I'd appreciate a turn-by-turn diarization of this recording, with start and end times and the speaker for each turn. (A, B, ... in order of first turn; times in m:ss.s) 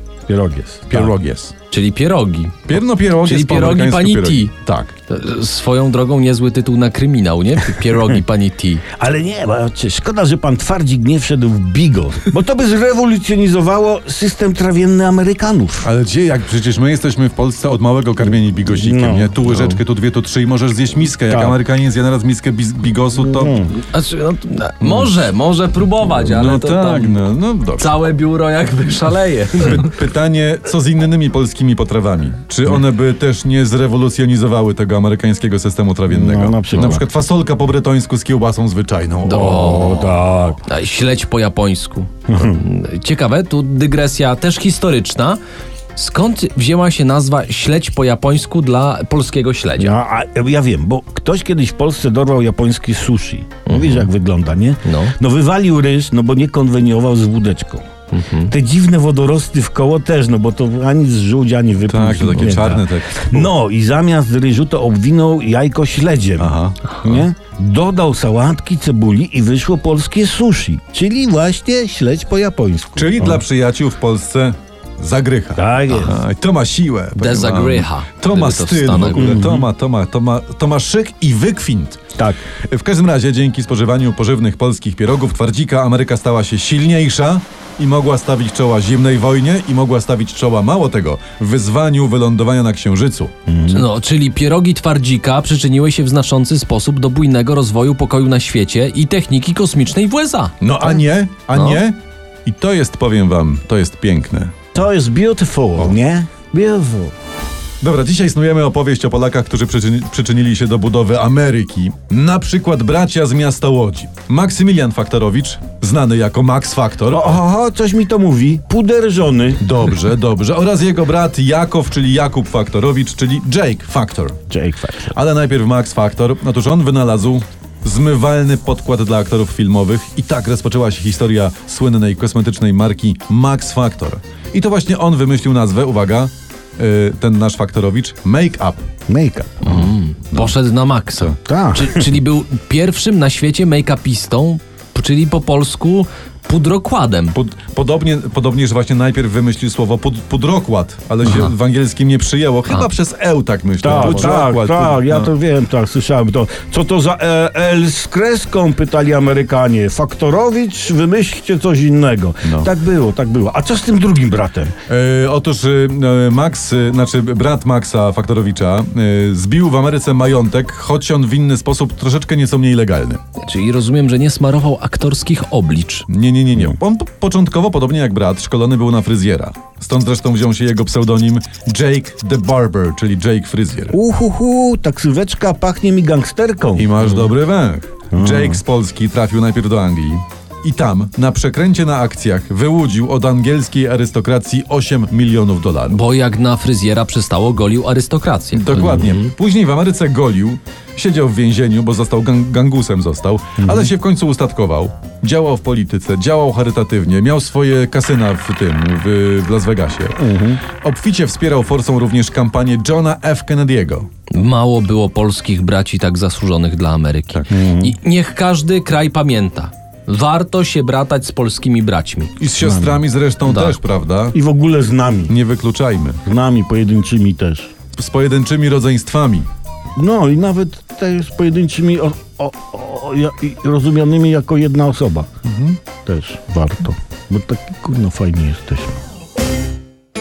0:00.3-0:01.1 A
0:00.9-0:01.5 B
0:01.7-0:02.7 C
0:02.6-0:04.9 B
0:03.2-0:04.5 C
0:05.1-0:08.8 C
0:09.0-0:15.9 A
0:15.8-0:23.6 B
0:18.6-0:19.3 A
0:21.3-0:21.6 A
0:23.3-0:23.7 A
0:23.7-0:27.2 C
0:24.8-0:25.2 B
0:26.2-0:28.0 B
0:27.8-0:29.9 C
0:29.6-0:40.0 B
0:36.1-0:37.0 A
0:36.7-0:37.0 C
0:39.2-0:45.4 C
0:39.3-0:40.6 A
0:42.3-0:42.6 A
0:45.9-0:49.9 C
0:49.8-0:57.9 A
0:53.6-0:54.1 C
0:54.8-0:55.1 C
0:58.1-0:58.5 C
0:58.4-1:13.4 A
1:01.9-1:03.5 B
1:06.4-1:07.2 B
1:13.0-1:22.0 B
1:15.5-1:16.2 A
1:17.2-1:19.4 C
1:19.2-1:19.7 A
1:22.7-1:33.3 B
1:33.5-1:33.9 A
1:33.7-1:40.5 C
1:40.6-1:44.5 B
1:41.5-1:41.8 C
1:44.8-1:47.1 A
1:47.8-1:57.4 B
1:57.1-1:59.6 A
1:59.6-2:04.4 B
2:04.5-2:05.1 A
2:05.1-2:18.8 B
2:19.1-2:19.6 A
2:19.6-2:27.3 C
2:21.4-2:22.1 A
2:27.3-2:35.3 B
2:31.2-2:31.5 C
2:33.8-2:44.8 A
2:33.9-2:34.3 C
2:42.4-2:42.7 B
2:44.9-2:53.2 B
2:53.4-2:56.0 C
2:56.1-3:04.0 B
3:03.9-3:06.9 A
3:06.8-3:16.0 B
3:08.1-3:08.6 A
3:15.9-3:19.3 C
3:18.5-3:30.2 B
3:23.6-3:23.9 A
3:30.2-3:30.6 A
3:30.7-3:34.1 B
3:34.3-3:42.3 C
3:37.5-3:38.0 A
3:42.4-3:44.4 B
3:42.6-3:43.0 A
3:43.4-3:43.8 C
3:44.3-3:45.3 A
3:45.3-3:46.2 B
3:46.2-3:47.7 A
3:48.0-3:49.5 B
3:50.0-3:55.3 A
3:55.4-3:55.8 B
3:56.0-3:59.0 A